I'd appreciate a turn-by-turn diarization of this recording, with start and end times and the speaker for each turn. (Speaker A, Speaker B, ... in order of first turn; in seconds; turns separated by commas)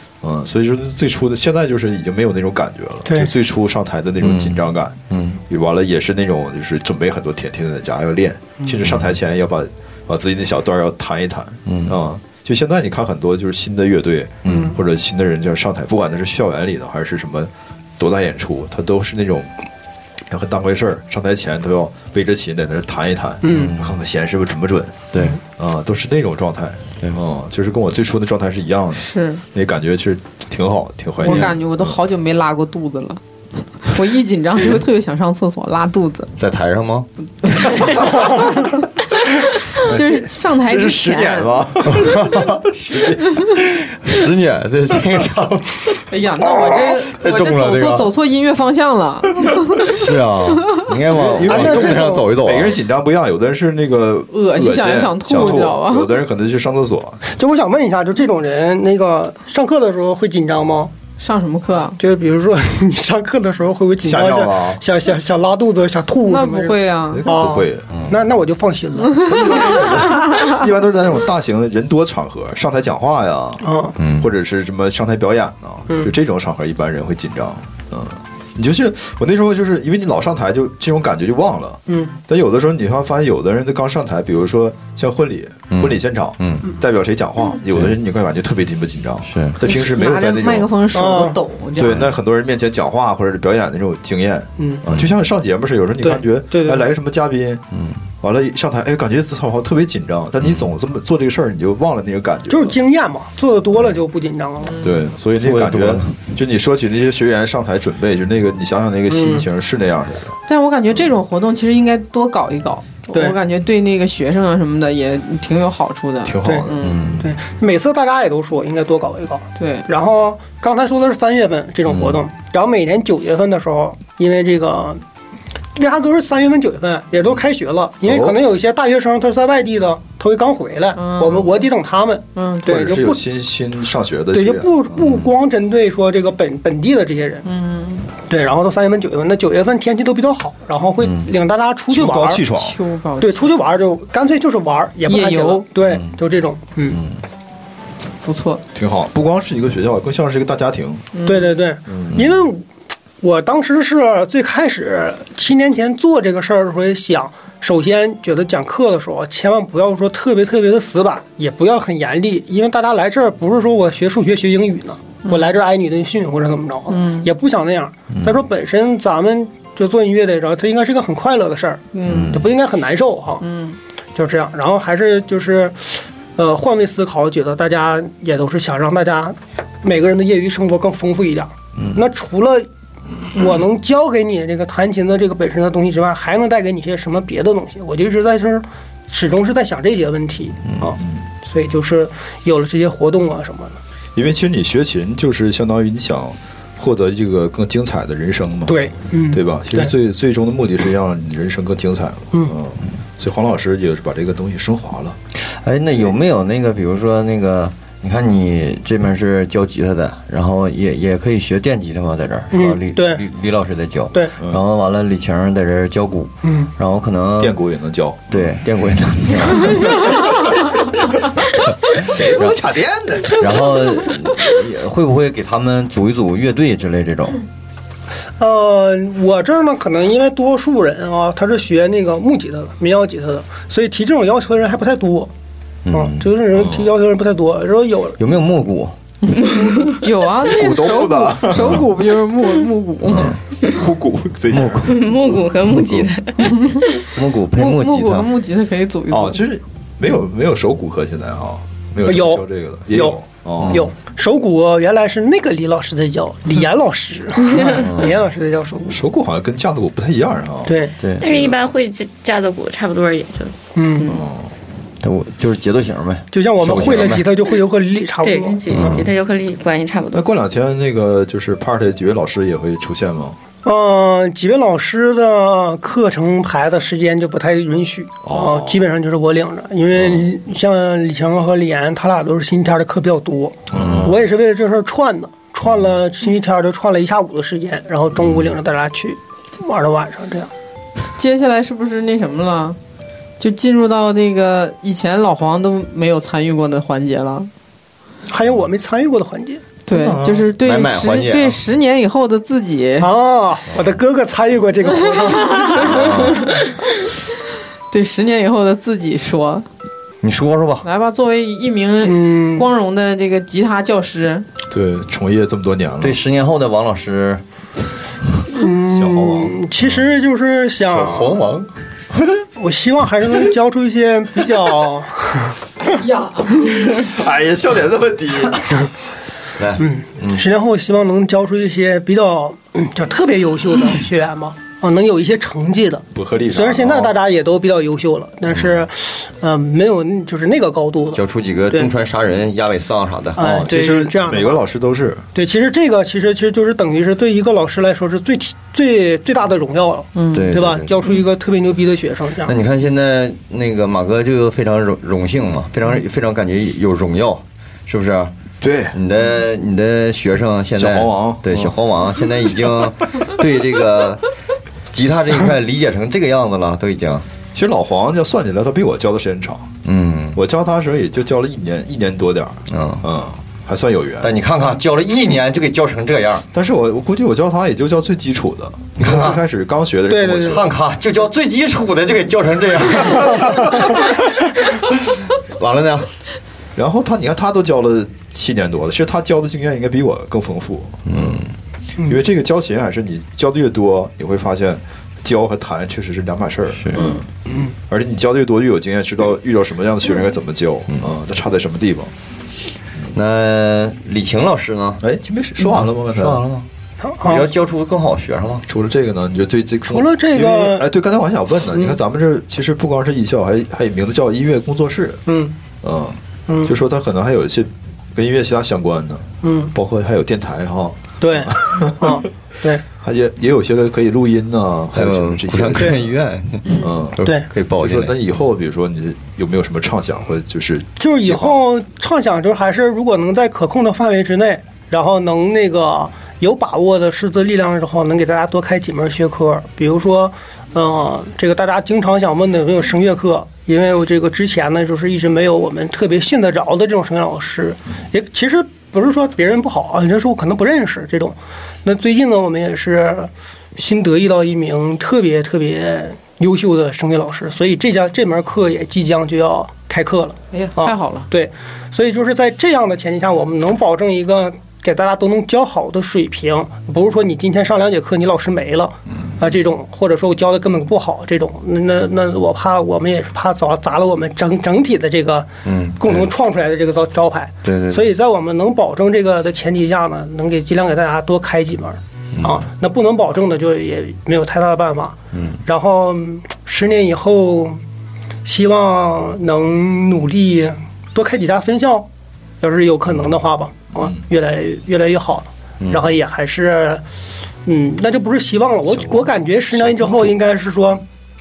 Speaker A: 0.2-19.5, Speaker B: 4.2-5.4, Speaker B: 8.8-9.1, Speaker B: 11.7-12.0, Speaker B: 14.4-14.8, Speaker C: 14.5-14.7, Speaker A: 20.3-32.0, Speaker C: 23.4-23.7, Speaker B: 23.5-24.0, Speaker D: 28.9-29.4, Speaker D: 31.2-33.2, Speaker D: 33.8-36.3, Speaker B: 36.4-37.1, Speaker D: 37.4-38.5, Speaker D: 39.8-41.6, Speaker A: 39.8-43.5, Speaker B: 41.9-42.6, Speaker B: 43.5-48.1, Speaker D: 46.1-49.9, Speaker B: 49.8-52.8, Speaker A: 51.1-57.2, Speaker C: 51.4-52.2, Speaker D: 54.3-56.1, Speaker C: 57.3-60.9, Speaker D: 61.2-62.0, Speaker C: 62.0-69.5, Speaker A: 64.0-64.8, Speaker D: 66.3-67.3, Speaker A: 67.1-67.9, Speaker B: 67.9-68.2, Speaker A: 69.2-90.9, Speaker C: 73.6-73.9, Speaker B: 74.0-74.3, Speaker C: 81.9-82.1, Speaker B: 85.7-86.7, Speaker B: 89.2-89.6, Speaker D: 89.6-91.9, Speaker C: 90.9-91.4, Speaker A: 91.8-97.6, Speaker B: 91.8-92.1, Speaker C: 94.6-94.8, Speaker C: 96.0-96.8, Speaker B: 97.7-98.0, Speaker A: 98.2-102.8, Speaker C: 102.5-104.9, Speaker A: 104.8-110.4, Speaker B: 105.4-106.2, Speaker C: 109.1-109.4, Speaker D: 110.5-117.0, Speaker C: 113.1-113.4, Speaker A: 116.2-117.3, Speaker C: 116.4-125.0, Speaker B: 116.8-117.2, Speaker D: 119.6-119.8, Speaker B: 121.9-122.2, Speaker C: 125.7-133.2, Speaker A: 128.0-128.4, Speaker D: 130.9-131.5, Speaker D: 132.3-132.9, Speaker A: 132.7-135.0, Speaker C: 134.3-137.4, Speaker D: 137.4-138.1, Speaker C: 138.3-142.4, Speaker B: 141.0-141.3, Speaker A: 141.9-142.8, Speaker D: 142.5-143.5, Speaker C: 143.2-147.0, Speaker D: 145.1-145.7, Speaker B: 145.8-146.2, Speaker B: 146.9-147.2, Speaker D: 148.2-148.6, Speaker A: 148.7-151.1, Speaker D: 151.1-151.5, Speaker C: 151.2-152.6, Speaker A: 151.9-152.3, Speaker C: 153.2-173.4, Speaker D: 166.9-167.3, Speaker D: 171.9-172.4, Speaker B: 172.1-172.4, Speaker D: 173.4-173.8, Speaker C: 174.2-182.7, Speaker C: 183.3-193.8, Speaker A: 194.1-205.2, Speaker C: 198.7-199.9, Speaker B: 205.3-217.6, Speaker C: 212.5-213.2, Speaker C: 216.4-216.7, Speaker A: 217.4-218.6, Speaker B: 218.3-220.4, Speaker A: 219.5-220.1, Speaker A: 221.9-223.4, Speaker B: 223.3-227.4, Speaker C: 228.4-235.3, Speaker B: 235.8-236.3, Speaker C: 235.9-238.2, Speaker A: 236.5-236.9, Speaker B: 238.2-238.9, Speaker D: 239.2-243.3, Speaker A: 240.4-241.9, Speaker B: 243.1-243.4, Speaker A: 243.1-245.0, Speaker B: 244.5-245.1, Speaker E: 244.8-246.4, Speaker B: 245.7-246.1, Speaker D: 246.5-246.8, Speaker B: 247.1-248.3, Speaker D: 247.6-249.4, Speaker A: 249.1-253.9, Speaker C: 252.0-259.0, Speaker B: 253.6-253.9, Speaker B: 257.7-258.1, Speaker A: 258.9-260.8, Speaker C: 260.6-260.9, Speaker B: 261.0-261.3, Speaker E: 261.2-264.2, Speaker C: 263.7-264.2, Speaker A: 264.1-264.5, Speaker B: 265.0-267.2, Speaker C: 266.3-269.0, Speaker E: 268.2-270.2, Speaker B: 268.7-269.0, Speaker A: 270.1-273.4, Speaker C: 273.6-290.5, Speaker A: 278.2-278.8, Speaker A: 279.9-280.3, Speaker A: 283.7-284.2, Speaker B: 283.8-284.1, Speaker D: 291.1-292.8, Speaker D: 293.4-297.5, Speaker C: 298.3-299.7, Speaker D: 299.8-303.1, Speaker A: 299.9-300.5, Speaker B: 300.6-301.6, Speaker C: 303.0-306.4, Speaker D: 305.3-306.0, Speaker B: 305.8-306.5, Speaker D: 307.9-309.6, Speaker B: 310.2-310.8, Speaker D: 310.8-314.4, Speaker C: 312.0-312.7, Speaker A: 314.7-316.2, Speaker B: 316.0-317.4, Speaker C: 318.5-321.3, Speaker A: 318.9-319.6, Speaker B: 320.9-321.7, Speaker C: 322.6-325.6, Speaker D: 325.9-326.6, Speaker A: 326.9-328.7, Speaker B: 329.6-330.4, Speaker C: 329.8-341.2, Speaker A: 336.1-337.1, Speaker B: 338.5-338.8, Speaker B: 341.1-343.4, Speaker C: 343.4-344.6, Speaker A: 343.4-345.2, Speaker C: 345.3-352.5, Speaker D: 350.1-350.5, Speaker B: 350.3-350.9, Speaker B: 352.4-358.3, Speaker A: 358.6-358.9, Speaker B: 358.9-364.2, Speaker A: 360.7-361.7, Speaker B: 364.9-367.2, Speaker A: 367.5-369.7, Speaker B: 369.8-370.4, Speaker A: 370.3-374.3, Speaker B: 372.7-373.1, Speaker B: 374.2-376.4, Speaker A: 376.5-380.7, Speaker B: 379.0-379.4, Speaker C: 380.1-380.6, Speaker B: 380.5-386.1, Speaker A: 386.8-391.5, Speaker B: 391.1-391.5, Speaker A: 392.0-397.2, Speaker B: 396.8-397.1, Speaker A: 397.9-402.1, Speaker B: 403.1-405.0, Speaker A: 405.0-406.4, Speaker B: 405.6-406.7, Speaker C: 407.0-407.5, Speaker B: 407.2-408.6, Speaker A: 408.7-415.2, Speaker C: 409.9-410.8, Speaker C: 415.3-415.5, Speaker A: 415.8-422.2, Speaker C: 416.5-416.7, Speaker C: 419.4-419.7, Speaker C: 421.2-422.8, Speaker A: 423.0-426.1, Speaker B: 424.9-428.1, Speaker A: 426.8-427.2, Speaker A: 427.8-431.6, Speaker C: 431.0-475.5, Speaker D: 460.5-461.3, Speaker B: 475.6-476.3, Speaker C: 476.0-487.8, Speaker B: 477.6-478.1, Speaker B: 482.4-482.6, Speaker B: 485.3-485.6, Speaker C: 488.4-492.1, Speaker C: 492.6-497.0, Speaker A: 493.9-494.2, Speaker B: 495.8-496.1, Speaker C: 497.6-501.0